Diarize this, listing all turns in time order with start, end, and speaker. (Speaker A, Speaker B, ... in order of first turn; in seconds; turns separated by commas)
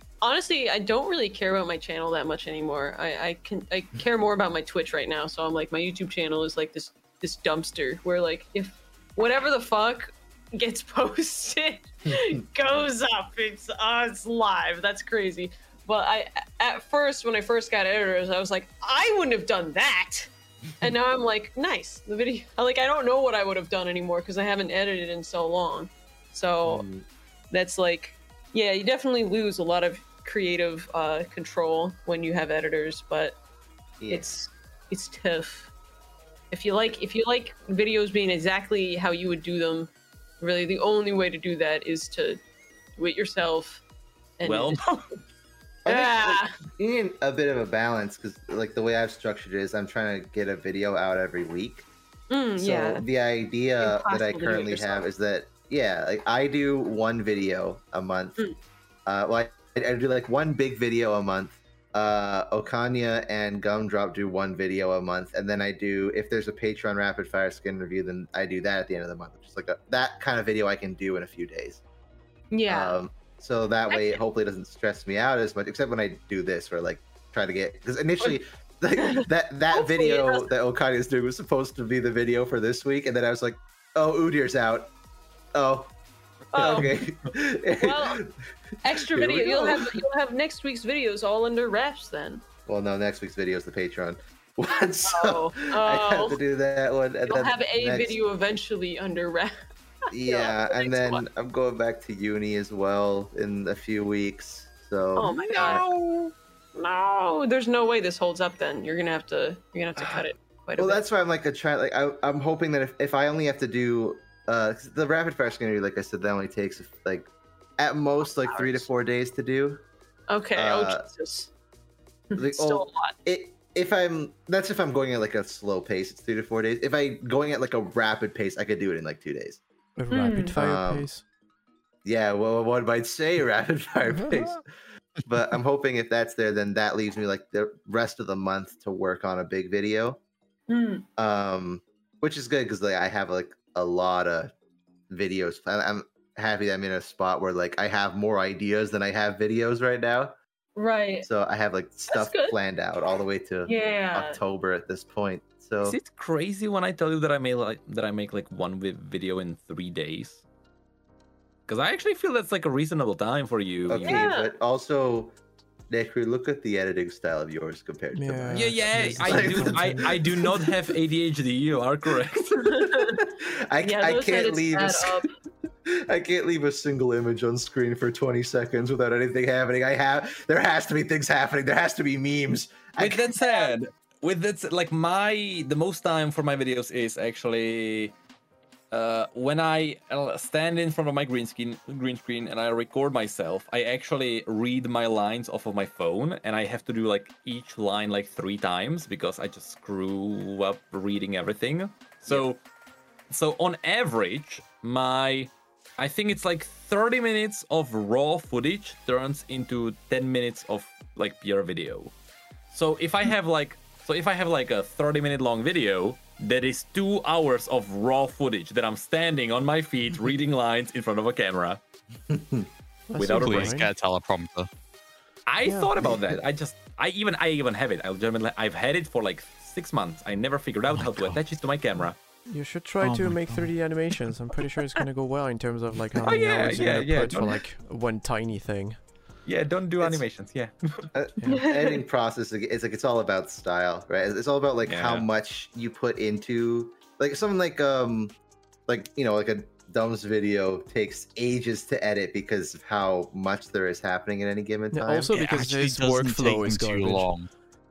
Speaker A: 0.2-20.3, Speaker A: 20.8-26.9, Speaker B: 26.6-27.1, Speaker A: 27.5-33.4, Speaker B: 34.0-34.3, Speaker A: 34.1-35.7, Speaker A: 36.5-39.9, Speaker A: 40.4-42.4, Speaker A: 43.0-43.8, Speaker A: 44.4-44.8, Speaker C: 44.4-45.1, Speaker B: 45.8-51.9, Speaker A: 45.9-46.5, Speaker A: 52.3-53.0, Speaker B: 52.6-58.4, Speaker A: 53.8-55.0, Speaker B: 59.0-71.8, Speaker A: 72.5-73.0, Speaker B: 72.7-84.9, Speaker A: 73.9-74.2, Speaker A: 79.0-80.5, Speaker B: 85.5-85.9, Speaker A: 86.5-87.0, Speaker B: 86.5-88.4, Speaker A: 87.8-88.2, Speaker A: 88.8-92.4, Speaker B: 88.9-90.0, Speaker B: 92.7-98.2, Speaker A: 95.0-96.4, Speaker A: 97.3-99.5, Speaker A: 100.1-101.2, Speaker B: 100.1-105.9, Speaker A: 105.2-105.8, Speaker C: 105.3-106.3, Speaker A: 106.7-111.0, Speaker B: 110.0-110.2, Speaker B: 110.8-119.8, Speaker A: 118.3-118.9, Speaker A: 120.3-121.5, Speaker B: 120.5-121.1, Speaker A: 122.3-123.1, Speaker B: 122.3-129.6, Speaker D: 129.9-131.2, Speaker A: 130.1-130.6, Speaker B: 130.6-131.1, Speaker B: 132.0-134.6, Speaker D: 134.0-134.6, Speaker B: 135.2-140.2, Speaker A: 140.7-141.1, Speaker B: 141.2-144.5, Speaker B: 145.1-150.4, Speaker A: 150.8-151.3, Speaker B: 151.2-156.0, Speaker A: 152.1-152.6, Speaker A: 153.7-154.4, Speaker C: 155.8-160.4, Speaker C: 161.7-164.2, Speaker B: 163.9-165.4, Speaker A: 164.0-164.5, Speaker B: 165.9-170.7, Speaker D: 168.1-170.2, Speaker C: 168.5-172.5, Speaker B: 172.5-175.2, Speaker A: 172.6-173.2, Speaker A: 173.8-175.3, Speaker B: 175.8-183.3, Speaker C: 183.0-188.1, Speaker A: 183.4-183.7, Speaker C: 188.9-202.6, Speaker C: 203.3-212.1, Speaker C: 212.7-221.8, Speaker B: 222.3-222.7, Speaker D: 223.1-223.9, Speaker C: 223.2-223.8, Speaker E: 223.2-224.7, Speaker C: 225.5-232.2, Speaker D: 225.7-226.1, Speaker E: 230.9-231.4, Speaker D: 232.5-239.0, Speaker E: 233.0-233.9, Speaker C: 236.2-237.6, Speaker C: 239.4-241.1, Speaker B: 241.1-248.3, Speaker A: 241.5-242.0, Speaker C: 244.8-245.3, Speaker B: 248.9-255.3, Speaker D: 254.9-257.3, Speaker E: 255.3-257.5